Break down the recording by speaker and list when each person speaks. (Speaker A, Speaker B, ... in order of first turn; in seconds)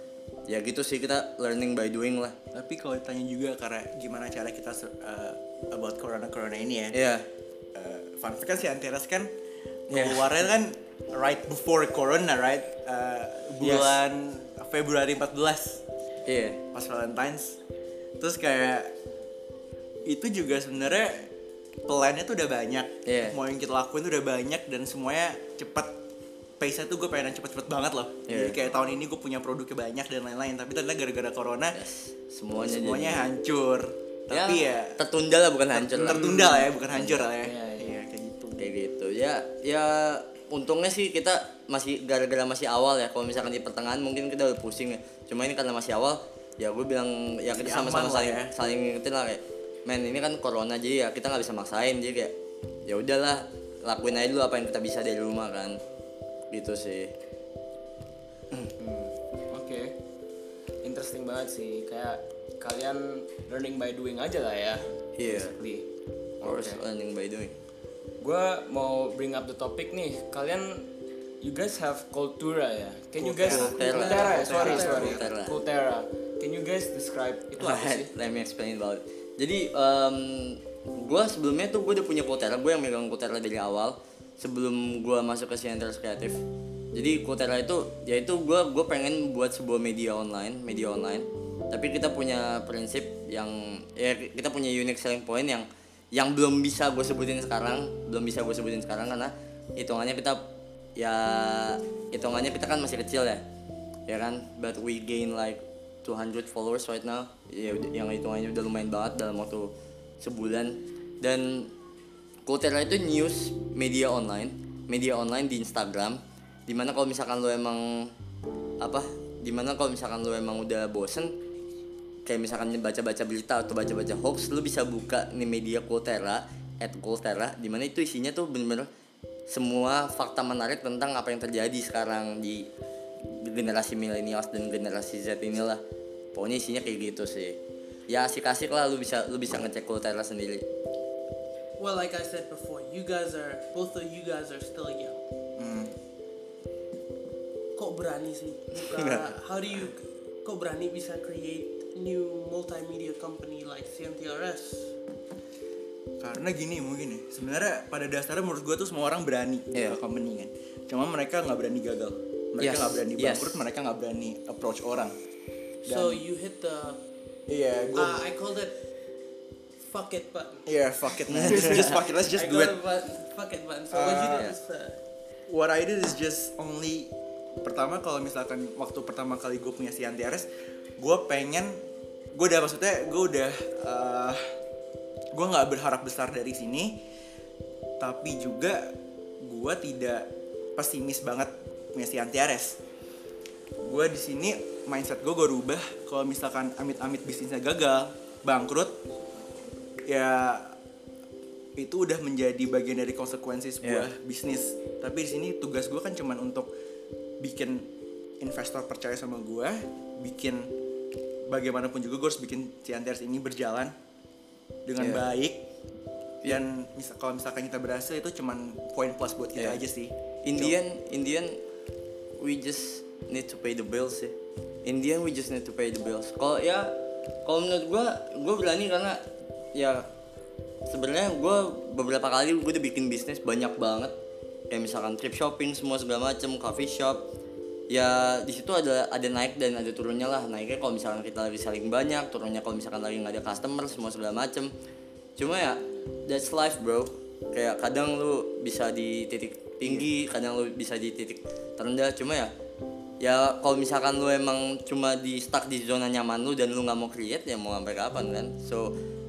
Speaker A: 0.5-2.4, 6.9-7.3, 9.9-10.3, 13.6-14.0, 16.3-16.6, 23.1-23.4, 28.3-28.6, 31.7-33.3, 34.3-36.4, 38.6-52.3, 52.9-55.8, 56.5-57.1, 65.2-65.6, 66.4-67.5, 73.5-75.6, 77.6-86.4, 86.9-103.4, 104.1-111.7, 112.5-118.1, 118.8-121.3, 122.2-128.9, 129.5-132.7, 133.2-135.8, 136.3-140.6, 148.8-149.2, 162.6-163.6, 171.3-171.9, 203.8-204.1, 215.0-215.3, 219.6-219.8, 220.4-221.6, 222.4-229.2, 229.8-230.1, 230.9-234.1, 234.7-237.2, 237.9-244.7, 245.4-252.5, 253.2-258.9
Speaker B: 2.5-7.0, 7.8-9.3, 9.9-15.8, 16.7-17.6, 18.2-18.9, 20.1-21.3, 21.9-26.0, 26.6-31.8, 32.6-35.0, 35.7-38.7, 47.6-48.5, 73.2-75.4, 145.6-145.9, 156.2-165.2, 165.8-166.2, 167.5-168.3, 170.7-172.8, 173.9-174.5, 175.5-177.1, 177.6-180.5, 181.0-181.8, 182.3-184.5, 185.3-187.0, 188.0-192.8, 193.8-198.9, 200.1-200.8, 201.8-206.7, 207.4-207.9, 208.4-210.7, 211.5-213.9, 214.9-215.6, 216.4-220.8
Speaker C: 36.1-36.7, 37.4-38.0, 58.8-59.9, 60.8-65.9, 66.4-66.8, 68.2-70.9, 71.4-78.1
Speaker D: 73.8-75.1, 141.8-145.2, 147.8-154.9, 165.9-167.0, 167.9-168.8, 169.8-170.7, 171.5-175.0